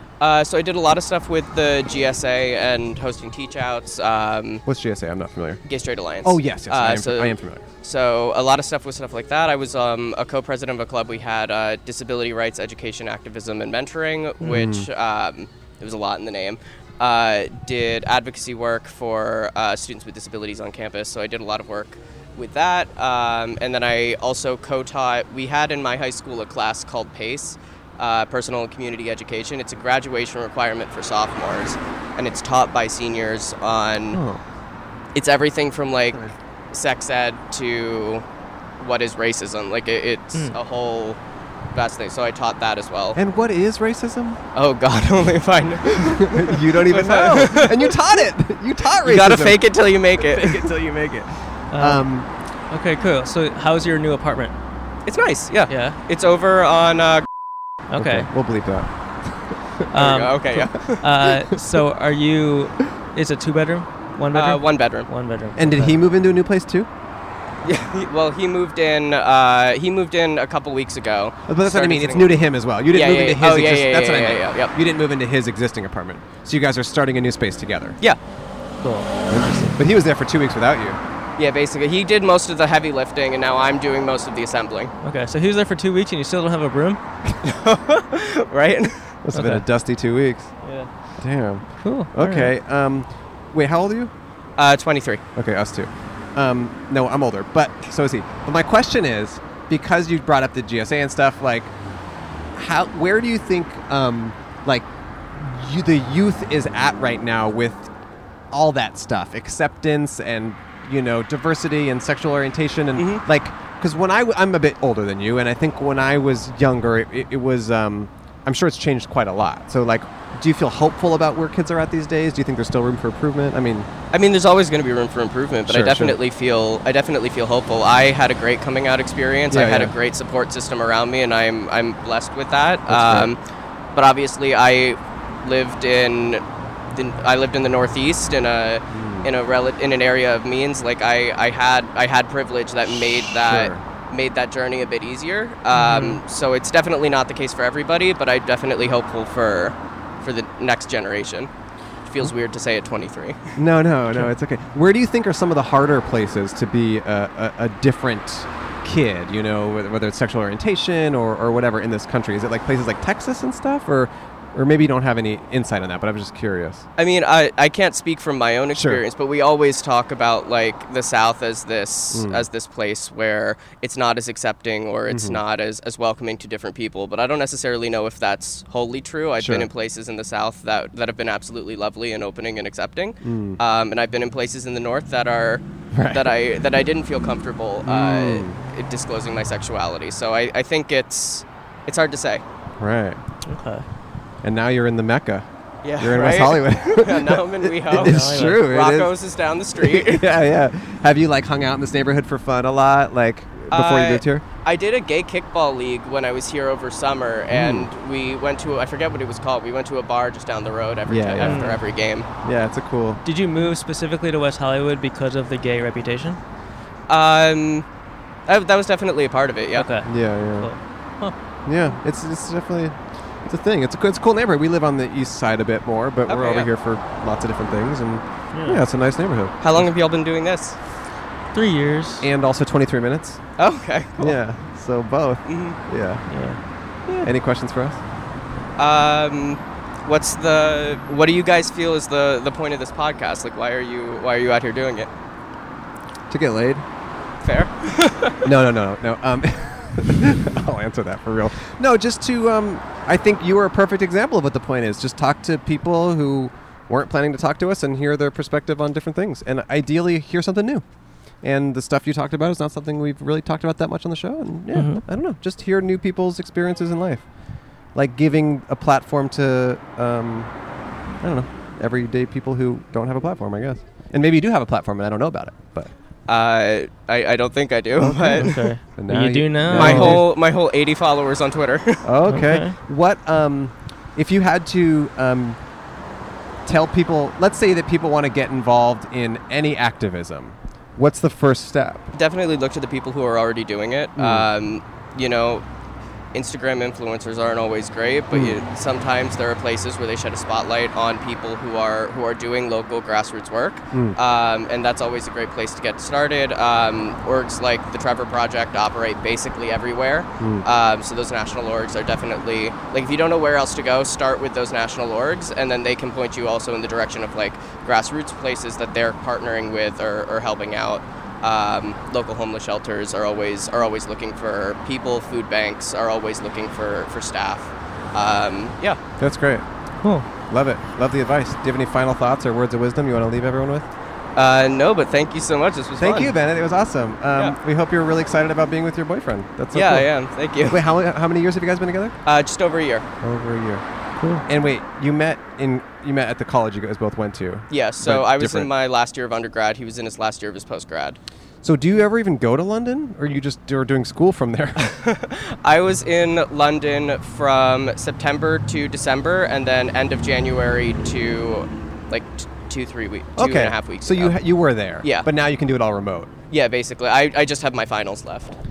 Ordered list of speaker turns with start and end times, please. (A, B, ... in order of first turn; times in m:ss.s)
0:00.2-0:04.6 A
0:04.6-0:05.6 B
0:05.6-0:34.2 A
0:06.2-0:07.6 B
0:14.4-0:14.9 B
0:34.1-0:34.4 B
0:35.1-0:38.2 A
0:38.8-0:41.2 A
0:41.7-0:43.2 A
0:43.1-0:44.4 B
0:44.5-0:48.1 A
0:46.0-0:52.3 B
0:49.0-0:50.9 A
0:51.7-0:52.1 C
0:52.7-0:54.5 C
0:55.0-0:57.3 A
0:55.7-0:56.0 C
0:57.9-0:58.3 C
0:58.0-0:58.9 B
0:59.9-1:06.0 C
0:59.9-1:01.0 A
1:04.3-1:05.1 A
1:05.6-1:06.9 B
1:07.6-1:12.4 A
1:11.5-1:18.0 B
1:12.9-1:14.7 A
1:18.8-1:19.8 C
1:19.3-1:21.0 B
1:21.4-1:24.9 A
1:25.0-1:27.0 C
1:27.4-1:29.1 A
1:29.2-1:30.5 B
1:29.3-1:29.6 C
1:30.6-1:30.9 C
1:31.2-1:34.1 B
1:31.8-1:32.5 C
1:34.6-1:35.2 A
1:35.4-1:41.7 B
1:42.5-1:47.9 B
1:48.5-2:03.9 B
1:53.0-1:53.2 A
2:04.1-2:13.4 A
2:05.6-2:06.2 B
2:09.5-2:09.9 B
2:12.9-2:13.3 B
2:13.9-2:31.5 A
2:18.9-2:19.3 B
2:23.2-2:23.8 B
2:25.7-2:26.2 C
2:32.0-2:33.4 A
2:33.6-2:46.8 B
2:47.0-3:12.4 A
2:48.7-2:49.0 B
2:52.1-2:52.4 B
2:55.1-2:55.4 B
2:59.4-2:59.7 B
3:03.2-3:03.6 B
3:05.9-3:06.4 B
3:07.8-3:08.6 B
3:12.8-3:13.2 B
3:13.4-3:13.8 C
3:14.4-3:15.5 B
3:15.8-3:20.3 A
3:16.0-3:19.1 B
3:17.9-3:18.6 C
3:19.8-3:24.4 B
3:23.7-3:32.3 A
3:27.5-3:27.9 B
3:31.1-3:31.7 B
3:31.4-3:31.8 C
3:32.4-3:33.2 B
3:33.2-3:36.4 C
3:37.1-3:37.9 A
3:38.5-3:39.9 A
3:39.7-3:41.3 C
3:40.0-3:40.7 B
3:41.6-3:49.5 B
3:46.3-3:46.7 A
3:48.5-3:48.8 C
3:49.6-3:50.8 A
3:51.5-3:52.3 C
3:52.2-3:53.4 B
3:53.6-3:54.3 A
3:54.2-3:56.2 B
3:55.4-3:55.8 A
3:56.3-3:57.3 C
3:57.2-3:58.0 B
3:58.8-4:05.1 A
4:06.3-4:06.8 B
4:07.4-4:08.5 A
4:08.4-4:20.8 B
4:21.4-4:27.2 B
4:24.7-4:25.0 C
4:27.9-4:30.5 B
4:31.2-4:35.9 B
4:36.3-4:38.7 A
4:38.0-4:40.3 B
4:38.3-4:40.2 C
4:39.7-4:42.1 A
4:42.0-4:45.6 B
4:42.3-4:42.7 C
4:46.6-4:52.1 B
4:52.1-4:55.6 A
4:54.2-4:54.5 B
4:56.3-5:29.0 A
4:58.3-4:58.6 B
5:03.9-5:04.2 B
5:10.4-5:10.6 B
5:29.2-5:29.6 B
5:30.0-5:30.3 C
5:30.5-5:33.9 B
5:34.4-5:36.3 A
5:36.0-5:40.1 B
5:39.7-5:40.8 A
5:40.6-5:42.1 B
5:42.2-5:43.1 A
5:43.2-5:43.8 B
5:44.4-5:48.7 B
5:47.7-5:51.2 A
5:51.6-5:54.9 B
5:54.8-6:04.4 A
6:03.4-6:06.3 B
6:05.0-6:05.3 A
6:06.5-6:08.5 A